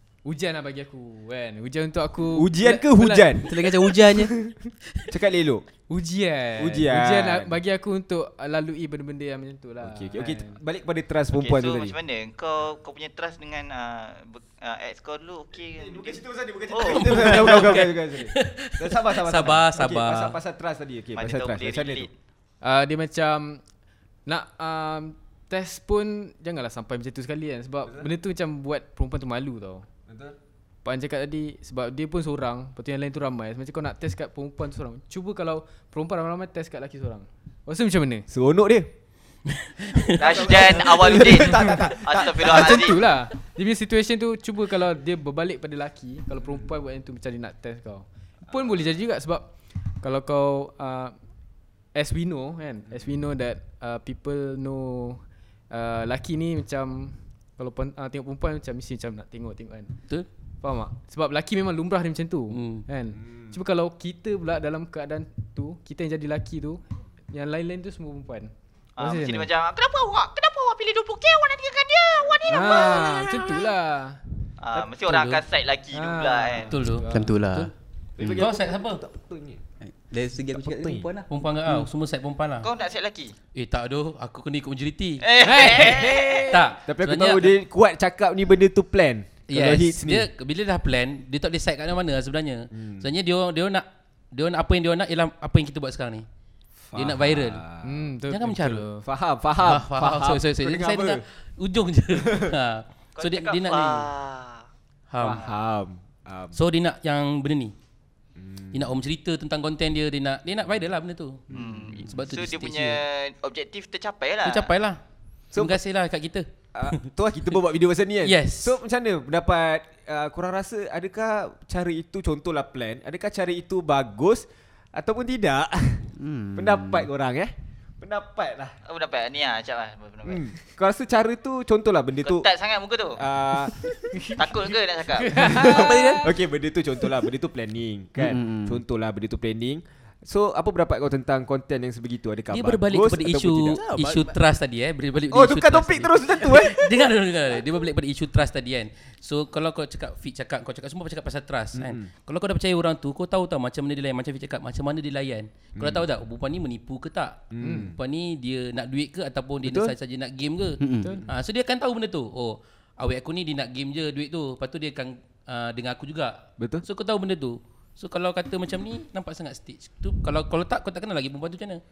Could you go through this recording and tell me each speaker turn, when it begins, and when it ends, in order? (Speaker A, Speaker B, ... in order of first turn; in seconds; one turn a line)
Speaker A: 0.2-3.5
Speaker B: 2.4-3.5
Speaker C: 3.5-4.4
Speaker B: 5.1-5.7
Speaker A: 5.9-10.6
Speaker B: 6.6-7.6
Speaker B: 9.8-12.0
Speaker D: 11.3-16.2
Speaker B: 15.8-22.1
Speaker D: 16.7-17.6
Speaker E: 16.9-20.4
Speaker D: 21.2-22.1
Speaker A: 22.6-23.6
Speaker A: 24.3-29.9
Speaker B: 30.1-30.4
Speaker A: 30.9-38.3
Speaker B: 38.3-38.9
Speaker E: 39.5-40.8
Speaker B: 40.2-43.0
Speaker D: 40.2-43.0
Speaker A: 42.4-49.5
Speaker A: 50.0-51.2
Speaker A: 51.9-59.9
Speaker A: 60.6-69.5
Speaker E: 62.5-62.9
Speaker B: 63.1-63.6
Speaker D: 69.0-73.6
Speaker A: 72.5-74.2
Speaker D: 74.6-76.7
Speaker E: 75.1-75.4
Speaker A: 75.9-77.4
Speaker E: 76.7-77.7
Speaker C: 77.1-78.4
Speaker B: 78.2-79.6
Speaker E: 78.4-79.0
Speaker C: 79.8-81.9
Speaker B: 80.5-81.1
Speaker E: 81.3-82.7
Speaker D: 82.6-83.3
Speaker E: 83.5-87.5
Speaker D: 85.2-86.5
Speaker A: 85.4-86.7
Speaker B: 86.9-90.3
Speaker E: 89.5-96.2
Speaker B: 92.7-93.1
Speaker B: 96.8-98.1
Speaker E: 97.0-97.6
Speaker A: 97.8-99.0
Speaker E: 98.3-98.8
Speaker B: 99.0-101.2
Speaker E: 99.6-104.1
Speaker B: 102.2-102.5
Speaker D: 103.2-104.7
Speaker E: 105.1-105.4
Speaker D: 105.2-105.5
Speaker B: 105.2-106.6
Speaker E: 106.5-107.7
Speaker B: 108.4-108.8
Speaker E: 108.7-111.5
Speaker D: 111.5-114.7
Speaker E: 112.0-113.0
Speaker E: 114.5-115.0
Speaker B: 115.5-115.8
Speaker E: 115.5-116.9
Speaker B: 116.7-128.8
Speaker E: 118.2-118.8
Speaker C: 126.2-127.1
Speaker D: 128.9-130.5
Speaker B: 130.2-132.5
Speaker D: 132.2-133.2
Speaker B: 133.2-134.8
Speaker D: 134.4-135.5
Speaker A: 135.2-136.3
Speaker B: 135.4-143.8
Speaker C: 135.5-136.3
Speaker C: 138.2-138.8
Speaker E: 142.5-171.8
Speaker C: 143.7-144.3
Speaker B: 145.3-147.1
Speaker B: 151.8-152.1
Speaker B: 155.8-156.1
Speaker B: 157.5-158.0
Speaker A: 157.6-157.9
Speaker B: 159.7-159.9
Speaker C: 160.8-161.2
Speaker B: 166.6-166.8